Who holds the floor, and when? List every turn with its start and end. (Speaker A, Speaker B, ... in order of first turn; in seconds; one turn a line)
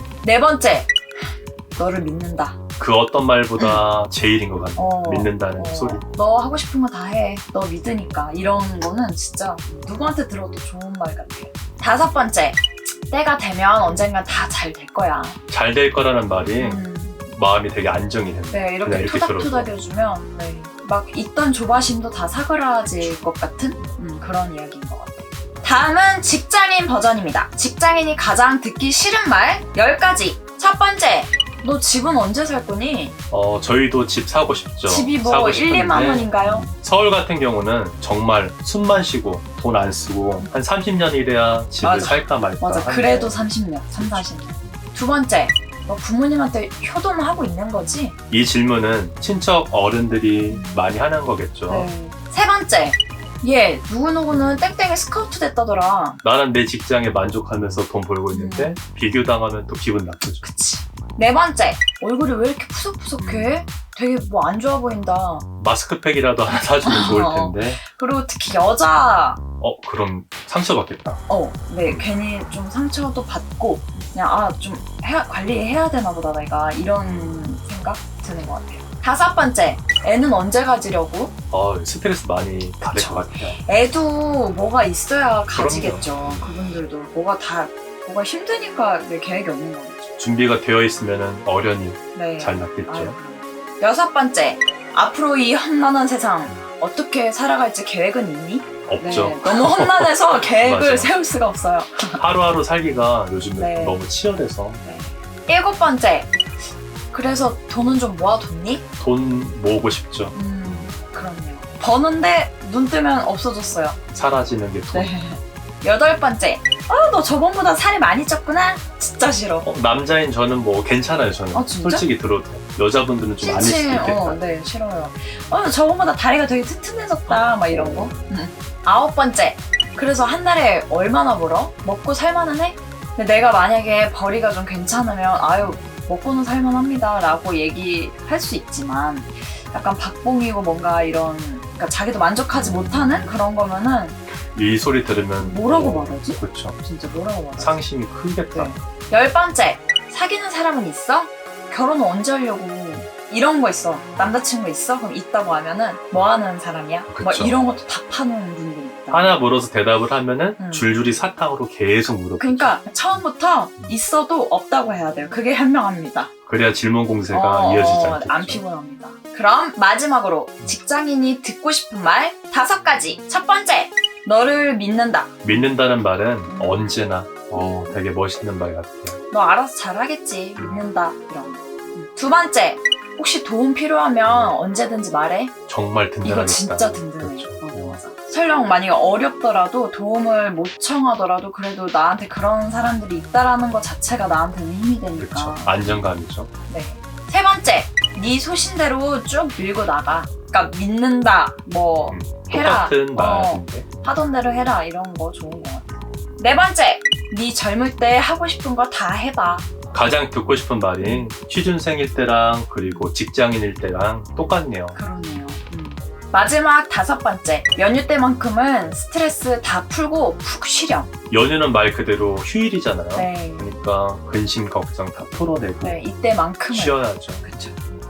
Speaker A: 0.2-2.6
Speaker B: 2.8-6.0
Speaker A: 4.8-15.4
Speaker B: 15.5-19.7
Speaker A: 16.6-17.3
Speaker A: 18.5-33.1
Speaker B: 33.3-44.8
Speaker A: 34.9-36.7
Speaker A: 41.8-48.2
Speaker B: 48.3-51.9
Speaker A: 50.5-50.9
Speaker A: 51.7-56.2
Speaker B: 54.3-54.6
Speaker B: 56.2-60.5
Speaker A: 58.3-58.8
Speaker A: 60.4-65.5
Speaker B: 63.2-63.6
Speaker B: 65.6-67.8
Speaker A: 66.8-69.4
Speaker B: 69.6-71.2
Speaker A: 71.3-81.3
Speaker B: 71.8-72.1
Speaker B: 77.0-77.3
Speaker B: 81.5-83.6
Speaker A: 82.9-90.1
Speaker B: 85.5-86.5
Speaker B: 90.2-93.2
Speaker A: 92.1-102.2
Speaker B: 98.9-101.2
Speaker B: 102.2-104.8
Speaker A: 103.6-104.0
Speaker A: 104.8-106.6
Speaker A: 107.1-108.8
Speaker B: 109.0-110.9
Speaker A: 110.3-114.0
Speaker B: 114.1-115.1
Speaker A: 114.9-119.7
Speaker B: 119.6-124.4
Speaker A: 121.5-122.1
Speaker A: 123.4-144.2
Speaker B: 127.3-128.3
Speaker B: 142.5-143.3
Speaker B: 144.5-146.8
Speaker A: 145.4-147.8
Speaker B: 147.6-148.8
Speaker A: 148.5-159.4
Speaker B: 157.1-157.7
Speaker B: 159.1-162.7
Speaker A: 160.6-160.9
Speaker A: 162.4-166.3
Speaker B: 166.5-168.6
Speaker A: 167.3-175.7
Speaker B: 175.4-179.2
Speaker A: 176.5-177.0
Speaker A: 177.5-178.0
Speaker A: 179.3-185.5
Speaker B: 184.2-184.5
Speaker B: 185.7-188.0
Speaker A: 186.2-196.0
Speaker B: 195.2-196.5
Speaker A: 196.7-209.7
Speaker B: 202.1-203.9
Speaker B: 209.9-215.0
Speaker A: 211.0-211.3
Speaker A: 214.9-221.1
Speaker B: 221.3-226.0
Speaker A: 223.1-223.7
Speaker A: 225.8-227.8
Speaker B: 226.7-227.4